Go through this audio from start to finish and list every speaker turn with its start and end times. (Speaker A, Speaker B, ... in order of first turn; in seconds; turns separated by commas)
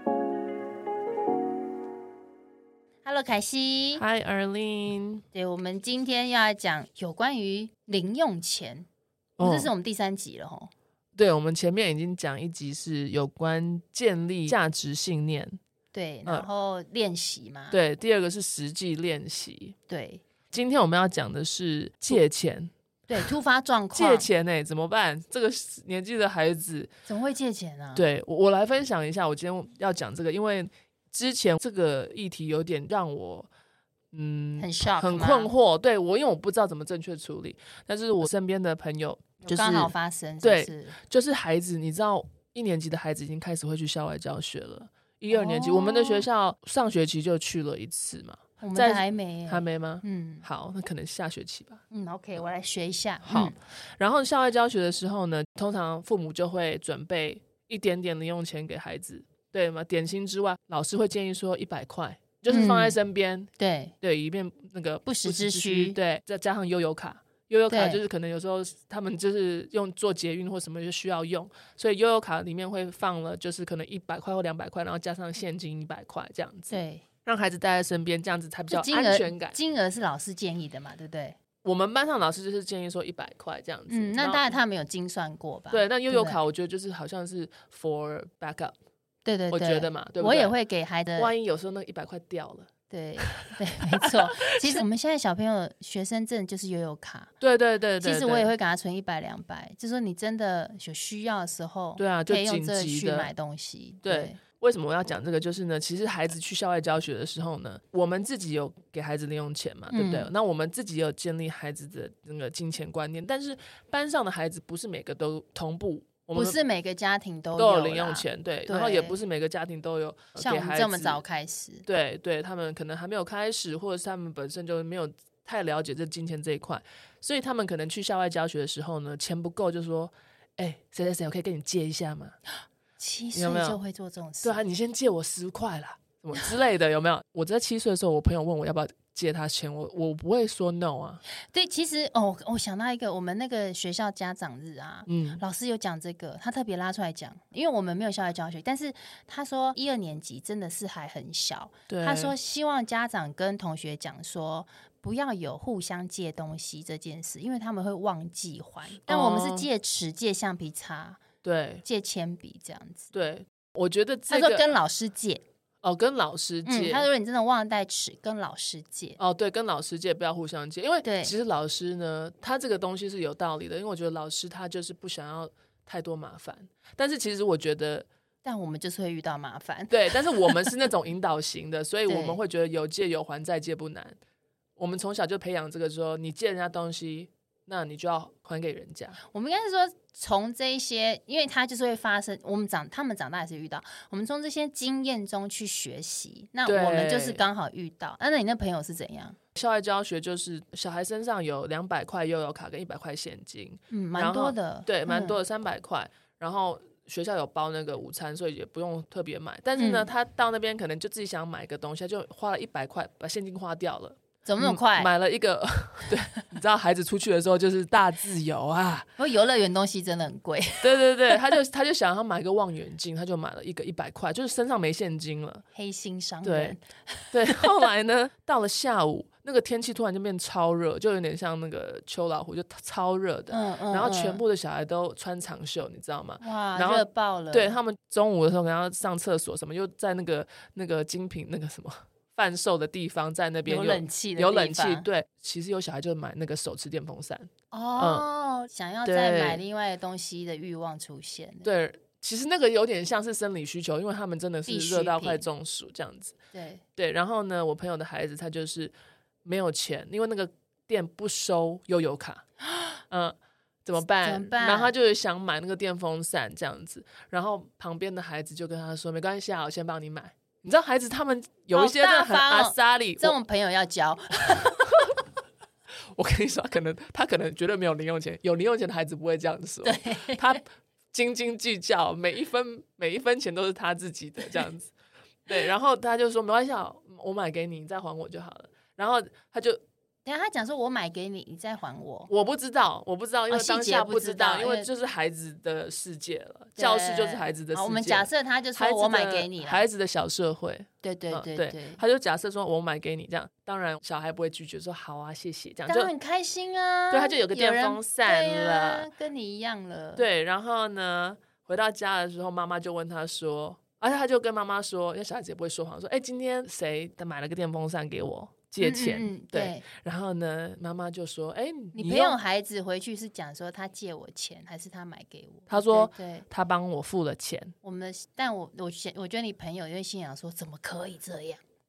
Speaker A: 3.0-4.0, Speaker B: 4.0-5.2, Speaker A: 5.3-8.9, Speaker B: 9.4-9.7, Speaker A: 9.4-10.7, Speaker B: 11.2-15.6, Speaker A: 15.9-17.8, Speaker B: 17.7-19.8, Speaker A: 19.9-20.2, Speaker B: 20.5-23.3, Speaker A: 23.1-24.3, Speaker B: 23.9-26.9, Speaker A: 27.1-28.1, Speaker B: 27.9-33.5, Speaker B: 34.1-51.8, Speaker A: 34.6-35.5, Speaker A: 39.4-41.0, Speaker A: 45.3-46.3, Speaker A: 48.6-50.5, Speaker A: 51.9-53.5, Speaker B: 53.2-63.5, Speaker A: 62.5-63.0, Speaker A: 63.6-63.9, Speaker B: 64.0-79.6, Speaker A: 65.1-66.0, Speaker A: 67.7-68.0, Speaker A: 76.7-77.0, Speaker A: 78.7-81.4, Speaker B: 81.6-84.6, Speaker A: 83.9-86.4, Speaker B: 85.7-88.8, Speaker A: 89.2-91.3, Speaker B: 89.5-90.5, Speaker B: 91.2-92.7, Speaker A: 92.9-97.3, Speaker B: 94.0-94.8, Speaker B: 97.4-98.5, Speaker A: 98.0-104.4, Speaker B: 102.0-103.3, Speaker B: 104.0-116.6, Speaker A: 109.9-110.3, Speaker A: 116.3-119.2, Speaker B: 117.6-121.2, Speaker A: 120.4-121.8, Speaker B: 121.9-132.3, Speaker A: 133.0-134.7, Speaker B: 133.3-133.8, Speaker B: 134.4-141.2, Speaker A: 141.3-161.2, Speaker B: 145.1-145.4, Speaker B: 151.9-152.3, Speaker B: 159.0-159.7, Speaker B: 161.4-161.8, Speaker A: 161.8-163.1, Speaker B: 163.1-164.7, Speaker A: 164.3-165.4, Speaker B: 165.8-167.1, Speaker A: 166.7-169.2, Speaker B: 169.2-178.1, Speaker A: 171.0-171.3, Speaker A: 178.4-180.8, Speaker B: 179.9-184.2, Speaker A: 182.1-182.4, Speaker B: 184.8-189.2, Speaker A: 189.3-199.4, Speaker B: 196.7-197.4, Speaker B: 199.6-219.1, Speaker A: 203.9-205.4, Speaker A: 209.8-210.1, Speaker A: 214.4-215.1, Speaker A: 219.2-221.4, Speaker B: 220.8-225.6, Speaker A: 225.8-227.7, Speaker B: 226.4-226.8, Speaker B: 227.3-248.3, Speaker A: 233.5-234.4, Speaker A: 236.4-237.8, Speaker A: 243.7-245.1, Speaker A: 247.7-251.7, Speaker B: 249.1-249.6, Speaker B: 251.6-256.4, Speaker A: 254.7-255.4, Speaker A: 256.5-256.8, Speaker B: 257.0-258.9, Speaker B: 259.4-262.4, Speaker A: 262.7-263.0, Speaker B: 263.1-273.4, Speaker A: 264.2-264.9, Speaker A: 271.7-274.8, Speaker B: 274.6-275.1, Speaker B: 276.1-280.6, Speaker A: 279.8-280.6, Speaker B: 281.1-284.9, Speaker B: 285.5-289.8, Speaker A: 290.2-292.3, Speaker B: 292.3-306.1, Speaker A: 293.5-294.9, Speaker A: 296.8-299.8, Speaker A: 301.0-302.0, Speaker A: 305.9-310.3, Speaker B: 307.1-309.1, Speaker B: 310.2-322.4, Speaker A: 318.8-319.8, Speaker A: 321.9-326.5, Speaker B: 325.7-327.8, Speaker A: 327.8-331.6